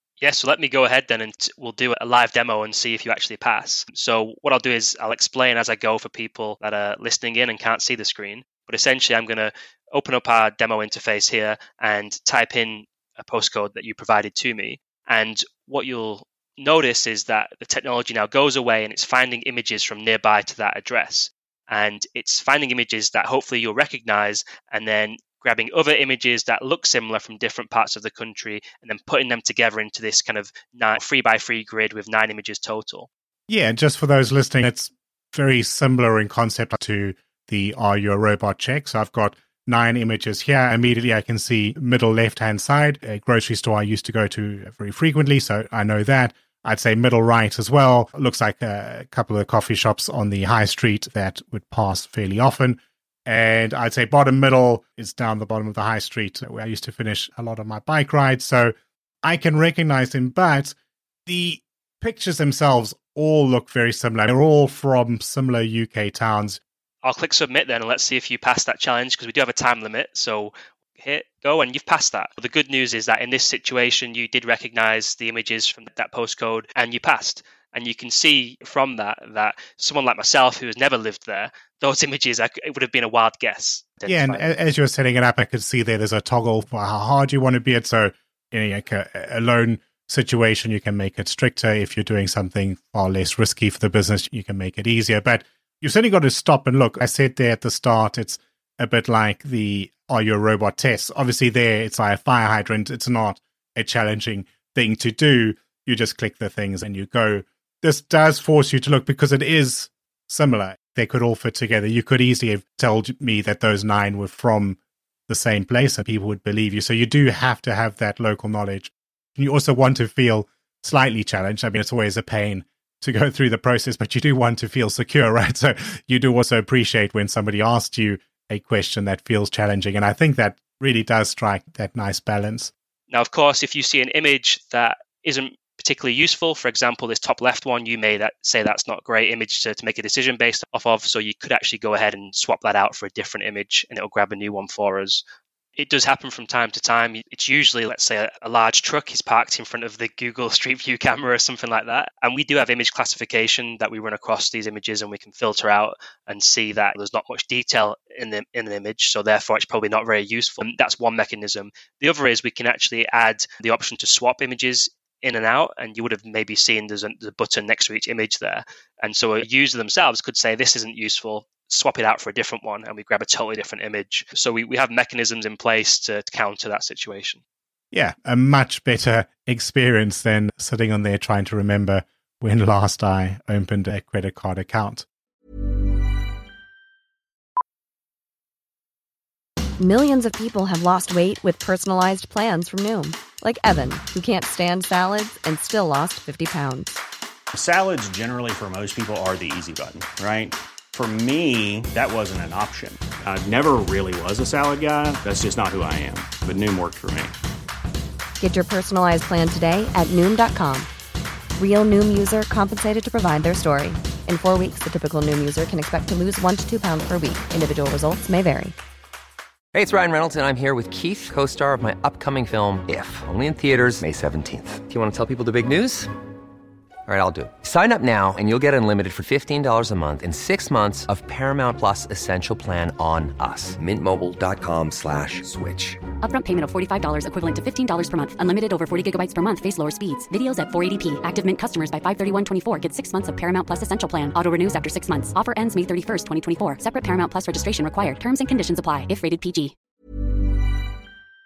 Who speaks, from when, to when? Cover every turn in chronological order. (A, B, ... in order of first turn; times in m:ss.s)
0:00.2-0:33.1 A
0:33.5-1:00.7 B
1:01.2-1:06.6 B
1:07.0-1:24.4 A
1:24.0-2:12.7 B
2:13.1-2:25.2 A
2:25.8-2:57.4 A
2:57.9-3:05.0 B
3:09.8-3:16.9 C
3:17.5-3:27.3 D
3:28.4-3:30.9 C
3:31.6-3:38.7 C
3:39.7-3:46.1 E
3:47.1-3:56.0 E
3:56.2-4:09.7 F